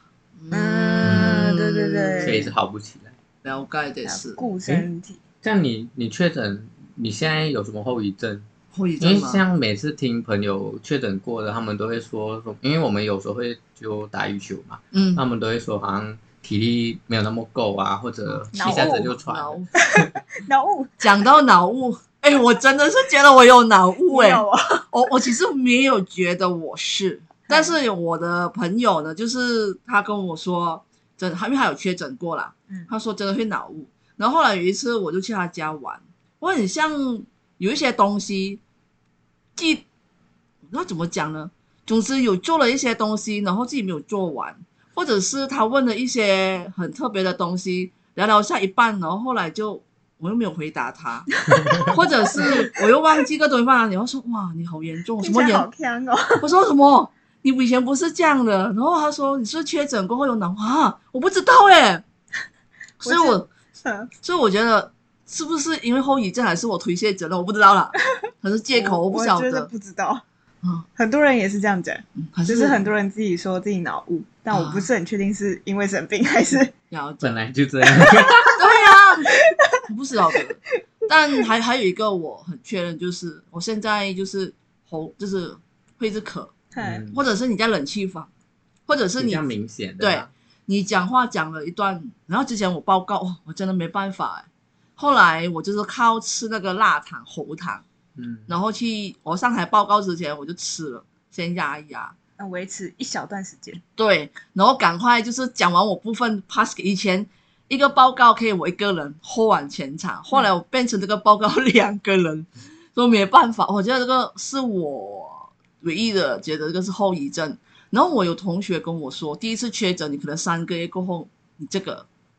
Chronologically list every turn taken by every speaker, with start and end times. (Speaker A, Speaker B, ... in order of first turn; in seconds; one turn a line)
Speaker A: 0.4-2.5
Speaker B: 0.5-2.5
Speaker C: 1.0-1.5
Speaker C: 2.2-3.1
Speaker A: 3.4-4.4
Speaker B: 4.0-5.2
Speaker C: 5.4-8.5
Speaker A: 8.7-9.4
Speaker C: 9.0-19.6
Speaker A: 14.9-15.2
Speaker A: 18.3-19.7
Speaker B: 18.5-19.1
Speaker B: 19.8-21.0
Speaker A: 21.0-38.6
Speaker B: 24.1-24.9
Speaker B: 27.5-27.8
Speaker A: 39.6-39.9
Speaker A: 40.7-55.7
Speaker B: 51.3-52.9
Speaker B: 55.2-56.5
Speaker A: 56.4-62.0
Speaker A: 63.0-63.5
Speaker B: 63.0-64.1
Speaker A: 64.2-69.7
Speaker B: 68.7-70.2
Speaker B: 71.0-76.7
Speaker A: 72.2-72.8
Speaker A: 74.5-74.9
Speaker A: 76.9-77.4
Speaker C: 77.2-78.6
Speaker B: 77.9-78.6
Speaker A: 78.6-86.6
Speaker B: 79.3-80.4
Speaker B: 86.7-87.0
Speaker C: 86.8-87.2
Speaker A: 87.1-88.3
Speaker A: 88.9-89.4
Speaker C: 89.2-90.3
Speaker A: 90.0-97.8
Speaker C: 98.2-98.5
Speaker A: 98.5-102.2
Speaker B: 102.4-103.8
Speaker A: 104.0-122.1